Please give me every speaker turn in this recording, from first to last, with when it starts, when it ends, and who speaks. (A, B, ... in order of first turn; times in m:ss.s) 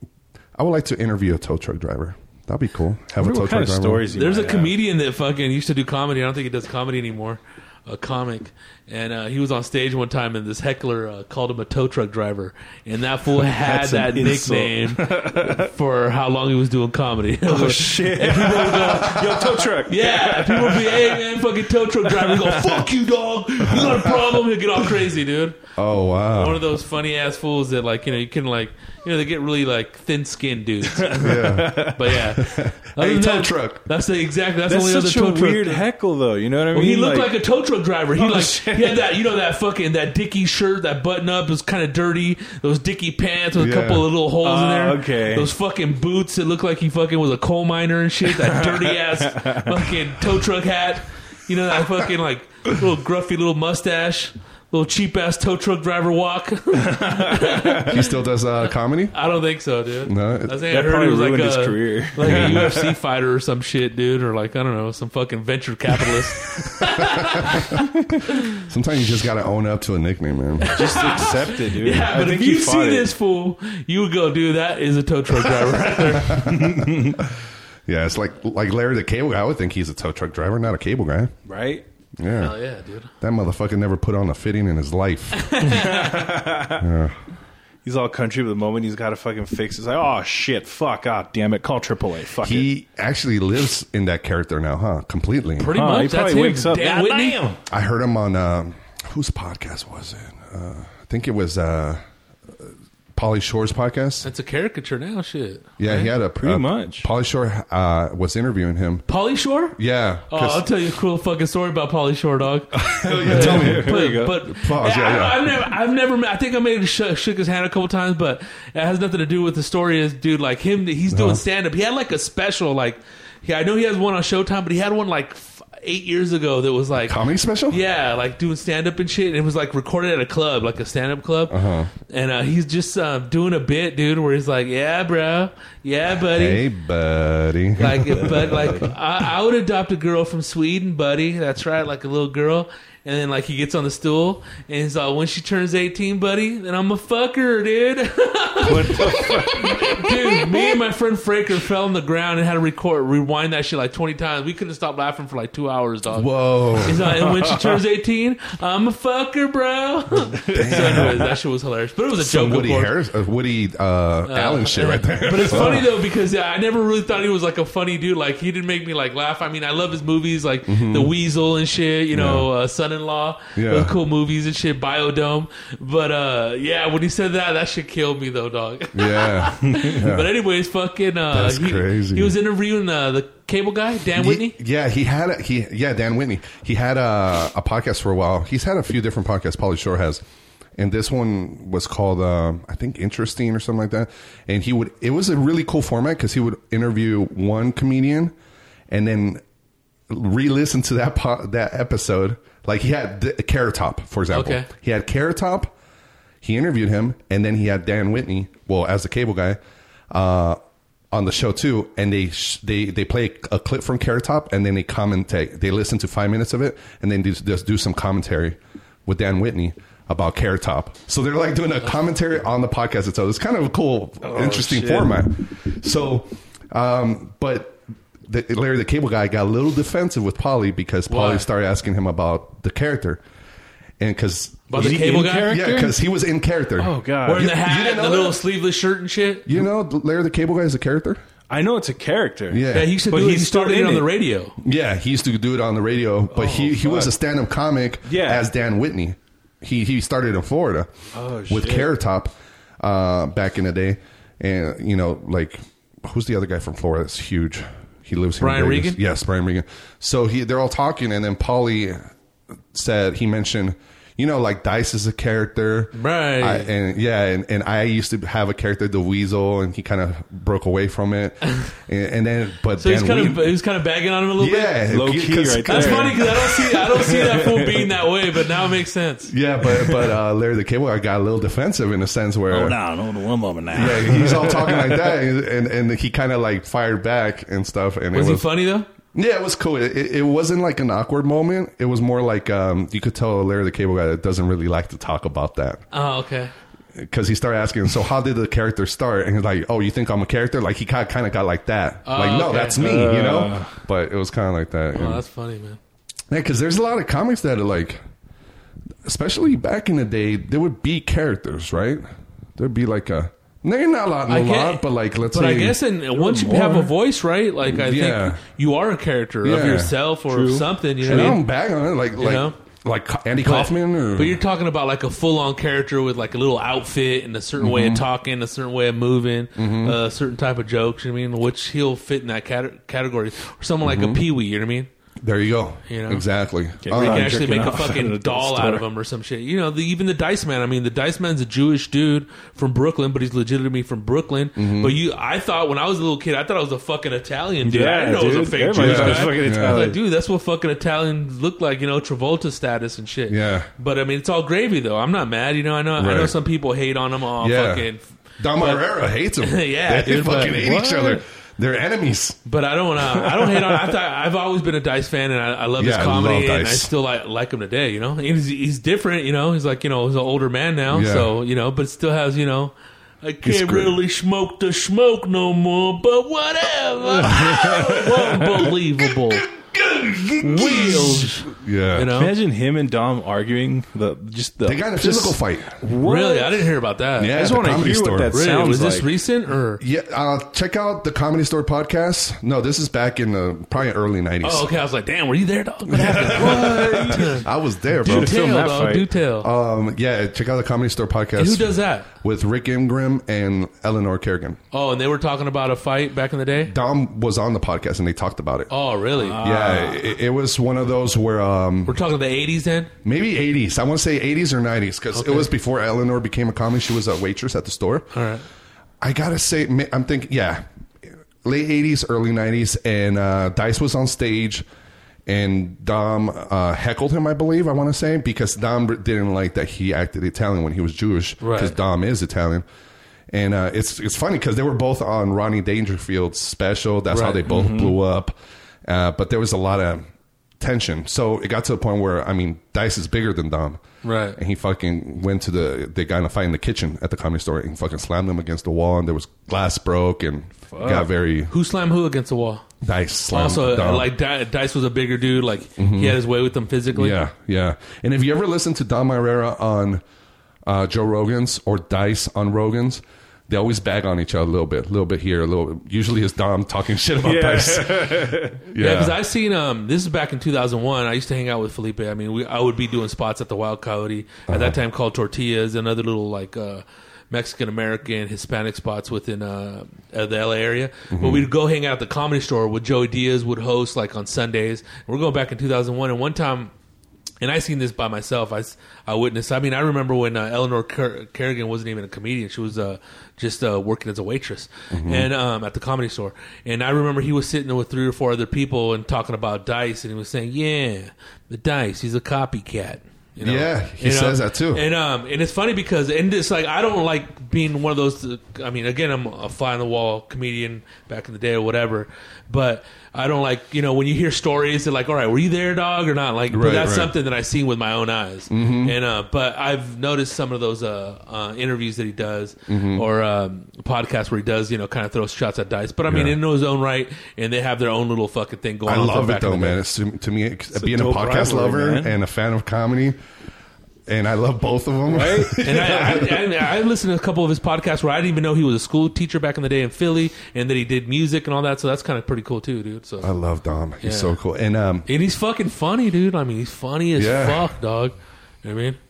0:00.6-0:04.0 A
0:03.2-0:04.8 B
0:04.1-0:19.3 C
0:13.4-0:15.7 B
0:17.4-0:21.2 B
0:19.8-0:25.6 C
0:22.0-0:22.9 B
0:23.7-0:24.3 A
0:25.8-0:26.6 A
0:26.3-0:35.8 C
0:31.0-0:32.0 B
0:31.2-0:33.8 A
0:34.7-0:37.3 B
0:36.7-0:58.0 C
0:38.2-0:39.0 B
0:43.5-0:44.1 A
0:44.4-0:45.5 B
0:48.2-0:49.9 B
0:56.8-0:57.8 B
0:57.9-0:59.2 A
0:59.1-1:08.3 C
1:00.0-1:00.6 A
1:00.7-1:02.9 B
1:02.2-1:02.7 A
1:08.6-1:10.8 A
1:10.7-1:13.1 B
1:10.7-1:16.4 C
1:16.1-1:21.3 A
1:16.4-1:17.2 B
1:21.4-1:21.8 B
1:22.2-1:22.5 A
1:22.4-1:23.1 C
1:23.2-1:25.6 A
1:25.4-1:26.3 C
1:25.7-1:26.8 B
1:26.8-1:27.2 A
1:27.8-1:32.7 B
1:32.4-1:35.7 A
1:35.6-1:37.4 C
1:35.7-1:37.6 B
1:37.7-1:42.0 A
1:42.6-1:44.3 A
1:44.2-1:46.1 C
1:45.8-1:49.0 A
1:46.4-1:47.1 B
1:49.1-1:49.8 C
1:49.7-1:50.7 A
1:50.3-2:07.2 C
1:52.7-1:55.5 A
1:53.2-1:54.4 B
2:01.1-2:01.4 A
2:07.0-2:07.8 A
2:07.7-2:11.6 C
2:11.5-2:11.9 A
2:12.1-2:16.6 C
2:16.1-2:18.9 A
2:17.8-2:36.3 C
2:28.6-2:30.5 B
2:36.1-2:37.1 A
2:36.8-2:42.9 C
2:37.4-2:37.8 B
2:40.4-2:41.2 B
2:40.5-2:41.3 A
2:42.2-2:45.8 A
2:44.3-3:04.6 C
2:50.6-2:51.1 A
2:52.1-2:52.5 A
2:53.5-2:53.9 A
2:58.9-3:00.3 A
3:01.3-3:02.4 A
3:04.1-3:10.2 A
3:10.8-3:18.3 A
3:18.9-3:19.4 A
3:20.1-3:25.7 A
3:24.3-3:24.7 C
3:26.4-3:29.6 A
3:30.1-3:30.6 A
3:31.1-3:53.2 A
3:44.2-3:45.2 B
3:51.1-3:51.5 C
3:54.0-3:58.4 A
3:54.7-3:55.6 C
3:54.8-3:56.0 B
3:56.8-3:57.5 B
3:57.2-3:59.5 C
3:59.4-4:01.2 A
4:01.5-4:04.1 B
4:02.5-4:02.9 A
4:02.7-4:04.5 C
4:04.6-4:22.1 A
4:06.3-4:07.1 B
4:08.0-4:08.5 B
4:11.1-4:11.9 B
4:18.4-4:19.0 C
4:22.7-4:33.5 A
4:25.9-4:26.7 C
4:32.8-4:34.8 C
4:34.4-4:36.7 A
4:34.9-4:37.9 B
4:35.7-4:39.3 C
4:39.3-4:42.8 A
4:42.5-4:45.1 B
4:43.7-4:48.5 A
4:48.1-4:48.9 C
4:49.1-4:55.8 A
4:55.9-4:56.5 C
4:57.0-5:05.2 A
5:02.0-5:02.8 C
5:02.8-5:03.7 B
5:04.9-5:05.8 C
5:06.3-5:08.0 A
5:09.0-5:12.0 A
5:12.6-5:15.8 A
5:14.3-5:21.4 C
5:16.2-5:16.9 B
5:17.7-5:18.4 A
5:19.4-5:19.9 A
5:20.3-5:20.7 B
5:21.0-5:24.4 A
5:22.2-5:22.6 C
5:23.4-5:34.9 C
5:27.6-5:28.0 A
5:29.6-5:30.0 A
5:33.8-5:34.2 A
5:35.2-5:37.4 A
5:35.9-5:36.2 C
5:36.8-5:38.8 B
5:36.9-5:58.0 C
5:44.6-5:45.0 A
5:47.6-5:50.0 B
5:48.7-5:49.8 A
5:53.3-5:53.7 A
5:56.0-5:56.3 A
5:57.4-5:57.9 A
5:58.4-6:02.4 A
5:58.6-5:58.8 C
5:59.4-6:00.8 C
6:00.6-6:01.2 B
6:02.4-6:19.4 C
6:05.8-6:06.9 A
6:10.9-6:11.3 A
6:13.4-6:14.0 A
6:17.1-6:18.4 B
6:19.8-6:21.3 B
6:20.4-6:22.3 C
6:20.6-6:22.1 A
6:22.2-6:26.7 B
6:24.6-6:25.8 A
6:26.0-6:27.4 C
6:27.2-6:28.4 A
6:27.3-6:29.1 B
6:28.3-6:29.8 C
6:29.8-6:34.8 A
6:34.4-6:37.4 C
6:35.9-6:38.4 A
6:36.1-6:37.4 B
6:38.0-6:39.1 B
6:38.0-6:39.5 C
6:39.4-6:44.6 A
6:41.4-6:42.1 C
6:44.7-6:46.7 C
6:46.6-6:48.7 A
6:48.7-6:49.4 C
6:49.2-6:50.1 B
6:49.4-6:52.0 A
6:51.9-6:52.9 C
6:53.0-6:58.1 A
6:55.1-6:55.5 C
6:58.1-6:58.4 C
6:59.0-7:00.6 A
7:01.4-7:04.6 A
7:05.3-7:12.6 A
7:11.4-7:11.8 C
7:13.3-7:20.1 A
7:17.1-7:17.5 C
7:17.5-7:18.0 B
7:20.6-7:23.8 A
7:24.0-7:24.4 C
7:24.3-7:31.5 A
7:30.7-7:31.1 B
7:31.5-7:32.6 C
7:32.8-7:34.1 A
7:33.3-7:37.2 C
7:35.8-7:36.2 A
7:36.9-7:40.0 A
7:40.6-7:49.2 A
7:47.2-7:48.6 B
7:48.8-8:06.7 C
7:54.5-7:54.8 A
8:01.1-8:01.5 A
8:07.4-8:49.8 C
8:14.9-8:15.3 A
8:23.4-8:24.8 A
8:36.5-8:37.1 A
8:38.5-8:38.9 A
8:42.7-8:43.0 A
8:46.1-8:46.4 A
8:48.8-8:53.2 A
8:50.7-8:52.2 B
8:54.1-8:56.2 A
8:55.1-8:56.0 B
8:55.6-9:03.3 C
9:03.2-9:05.1 A
9:04.0-9:04.4 C
9:05.1-9:09.0 C
9:07.2-9:07.7 A